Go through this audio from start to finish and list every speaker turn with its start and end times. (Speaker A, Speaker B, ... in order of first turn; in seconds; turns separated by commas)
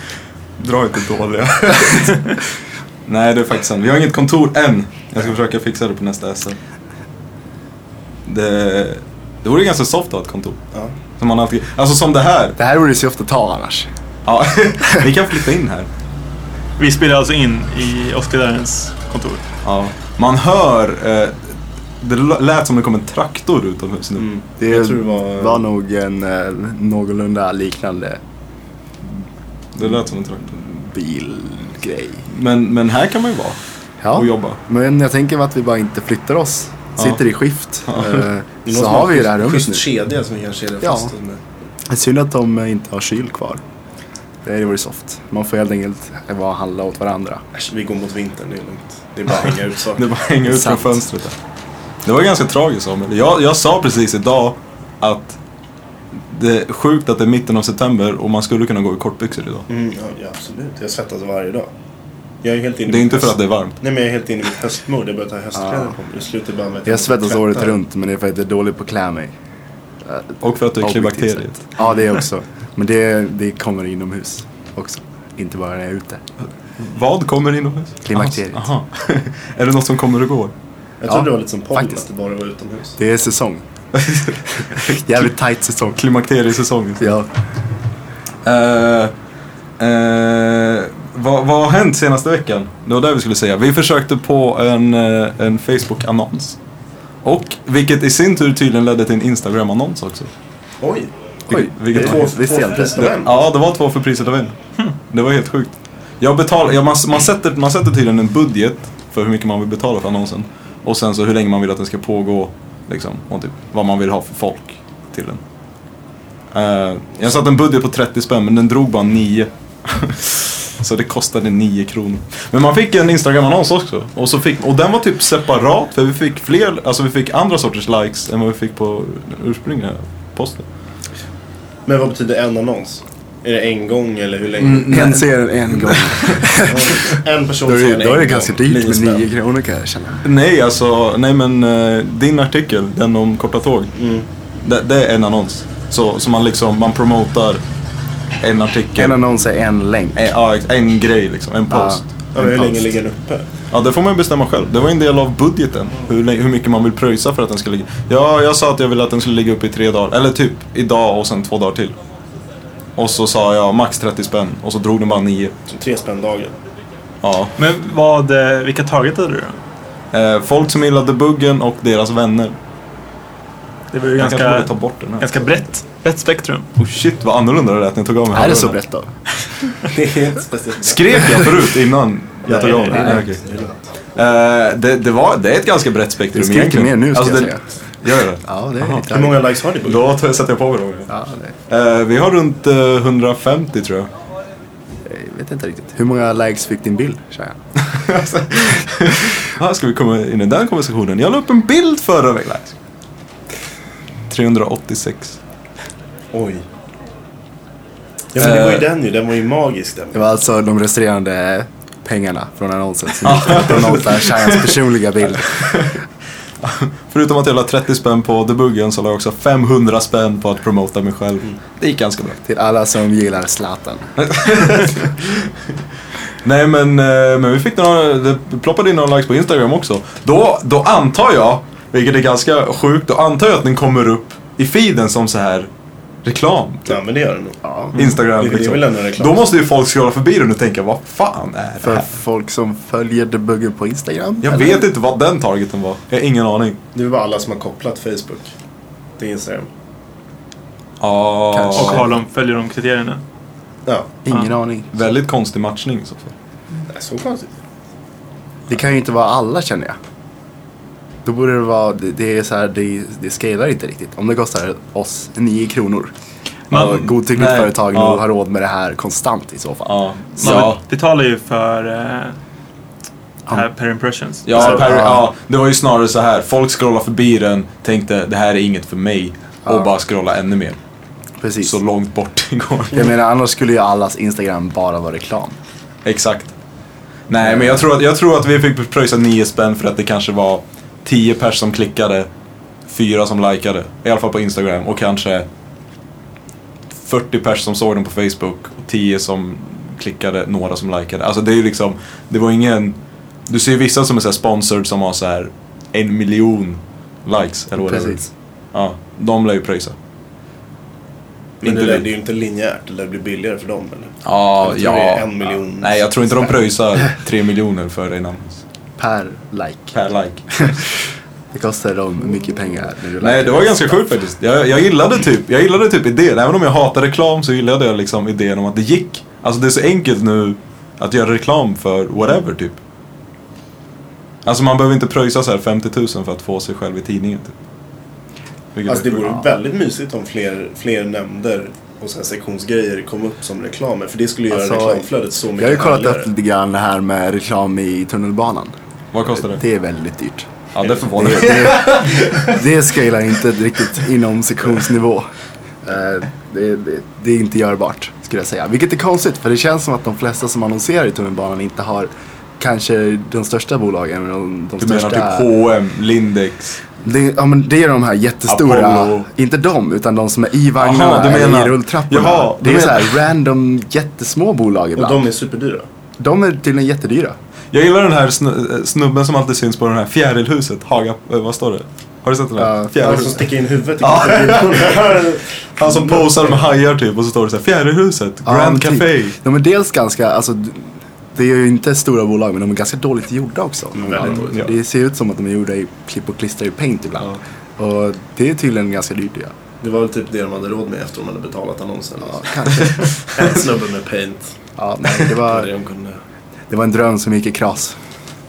Speaker A: 0.6-2.4, Speaker A: 3.0-6.6, Speaker A: 8.2-10.6, Speaker A: 11.2-12.6, Speaker B: 12.6-13.9, Speaker A: 14.2-15.9, Speaker C: 16.8-19.4, Speaker A: 19.6-24.3, Speaker D: 24.2-25.6, Speaker B: 24.6-28.2, Speaker A: 29.7-30.5, Speaker B: 30.4-32.3, Speaker A: 32.3-33.6, Speaker B: 34.0-39.8, Speaker A: 34.1-34.6, Speaker A: 37.9-38.2, Speaker D: 38.6-41.4, Speaker B: 40.8-41.1, Speaker B: 41.9-43.6, Speaker B: 44.4-47.4, Speaker D: 47.5-50.0, Speaker A: 49.9-51.4, Speaker B: 50.4-51.0, Speaker A: 52.0-55.4, Speaker A: 56.1-59.7, Speaker D: 59.7-61.7, Speaker D: 62.4-67.8, Speaker A: 62.9-63.8, Speaker B: 65.5-65.9, Speaker B: 66.8-69.3, Speaker B: 70.0-76.2, Speaker A: 70.4-71.7, Speaker A: 76.4-80.5, Speaker B: 78.0-78.7, Speaker D: 81.0-83.0, Speaker B: 81.1-82.0, Speaker B: 83.0-83.6, Speaker A: 83.9-85.2, Speaker B: 84.7-86.0, Speaker A: 85.9-87.1, Speaker B: 87.0-87.3, Speaker A: 88.4-89.1, Speaker A: 89.8-96.6, Speaker A: 97.2-100.3, Speaker D: 100.8-101.1, Speaker B: 101.5-103.0, Speaker A: 101.5-102.3, Speaker D: 101.9-103.4, Speaker A: 103.0-104.5, Speaker A: 105.1-115.4, Speaker A: 116.5-130.7, Speaker D: 131.8-135.3, Speaker A: 134.6-134.9, Speaker B: 134.7-137.1, Speaker A: 135.7-136.6, Speaker D: 136.6-139.3, Speaker B: 137.6-140.2, Speaker A: 140.2-143.9, Speaker D: 143.9-144.2, Speaker A: 144.6-147.6, Speaker A: 148.4-149.2, Speaker B: 149.0-150.2, Speaker A: 150.1-152.1, Speaker B: 151.7-152.8, Speaker D: 152.3-153.5, Speaker A: 153.7-161.9, Speaker A: 162.9-165.5, Speaker D: 165.7-166.6, Speaker A: 167.2-167.6, Speaker C: 167.6-169.6, Speaker A: 170.1-172.6, Speaker C: 173.9-176.7, Speaker A: 174.2-175.5, Speaker A: 176.8-178.8, Speaker B: 178.3-179.1, Speaker D: 179.8-181.5, Speaker A: 180.8-183.4, Speaker D: 182.4-183.9, Speaker B: 182.9-183.2, Speaker A: 184.1-189.0, Speaker B: 186.3-187.6, Speaker B: 188.4-189.4, Speaker D: 189.1-190.0, Speaker A: 189.8-191.1, Speaker B: 191.1-191.5, Speaker A: 191.7-194.1, Speaker B: 195.0-197.6, Speaker A: 197.8-202.8, Speaker A: 204.3-205.4, Speaker D: 206.3-206.6, Speaker D: 208.3-210.3, Speaker A: 208.3-208.9, Speaker B: 210.1-215.9, Speaker A: 213.2-214.6, Speaker A: 215.4-215.9, Speaker A: 216.6-222.4, Speaker B: 222.4-224.1, Speaker A: 224.2-225.7, Speaker A: 226.4-235.7, Speaker A: 236.2-237.0, Speaker D: 236.9-239.4, Speaker B: 237.6-237.9, Speaker A: 237.9-242.1, Speaker B: 241.8-244.8, Speaker A: 244.4-246.8, Speaker D: 246.9-248.5, Speaker D: 249.2-249.7, Speaker A: 251.0-252.1, Speaker B: 251.5-252.1, Speaker C: 251.7-253.2, Speaker D: 253.8-254.2, Speaker B: 254.2-255.0, Speaker A: 254.9-256.3, Speaker D: 256.9-257.5, Speaker B: 258.7-260.0, Speaker B: 261.2-266.1, Speaker A: 266.7-268.2, Speaker B: 266.7-270.7, Speaker A: 269.9-270.8, Speaker C: 270.4-272.4, Speaker C: 273.5-274.7, Speaker A: 274.4-280.8, Speaker B: 274.5-275.3, Speaker B: 281.4-281.8, Speaker A: 281.6-283.1, Speaker B: 282.9-285.6, Speaker A: 286.0-286.5, Speaker A: 287.3-292.3, Speaker B: 287.4-287.8, Speaker A: 292.9-295.5, Speaker A: 296.9-303.0, Speaker A: 303.5-308.2, Speaker B: 307.8-308.3, Speaker A: 308.7-309.9, Speaker D: 311.6-316.1, Speaker A: 311.6-312.1, Speaker A: 314.2-318.6, Speaker B: 319.0-320.0, Speaker A: 319.9-320.8, Speaker B: 321.5-324.1, Speaker A: 323.2-332.8, Speaker A: 334.4-337.5, Speaker A: 338.7-339.4, Speaker D: 338.9-346.3, Speaker B: 344.5-345.1, Speaker B: 345.6-348.7, Speaker A: 349.1-349.6, Speaker B: 349.4-350.5, Speaker A: 350.7-352.5, Speaker D: 350.8-351.1, Speaker B: 351.1-355.3, Speaker B: 355.8-365.5, Speaker A: 364.8-366.8, Speaker B: 367.0-375.2, Speaker A: 368.5-369.3, Speaker A: 370.8-373.1, Speaker D: 375.0-375.9, Speaker B: 376.2-377.4, Speaker A: 377.7-383.4, Speaker B: 382.6-383.4, Speaker D: 383.0-386.7, Speaker A: 384.0-385.1, Speaker A: 385.8-389.4, Speaker B: 388.4-399.5, Speaker D: 393.9-394.6, Speaker A: 394.2-394.7, Speaker D: 399.8-404.5, Speaker B: 402.2-403.1, Speaker B: 404.8-405.7, Speaker D: 405.3-406.2, Speaker B: 406.7-408.0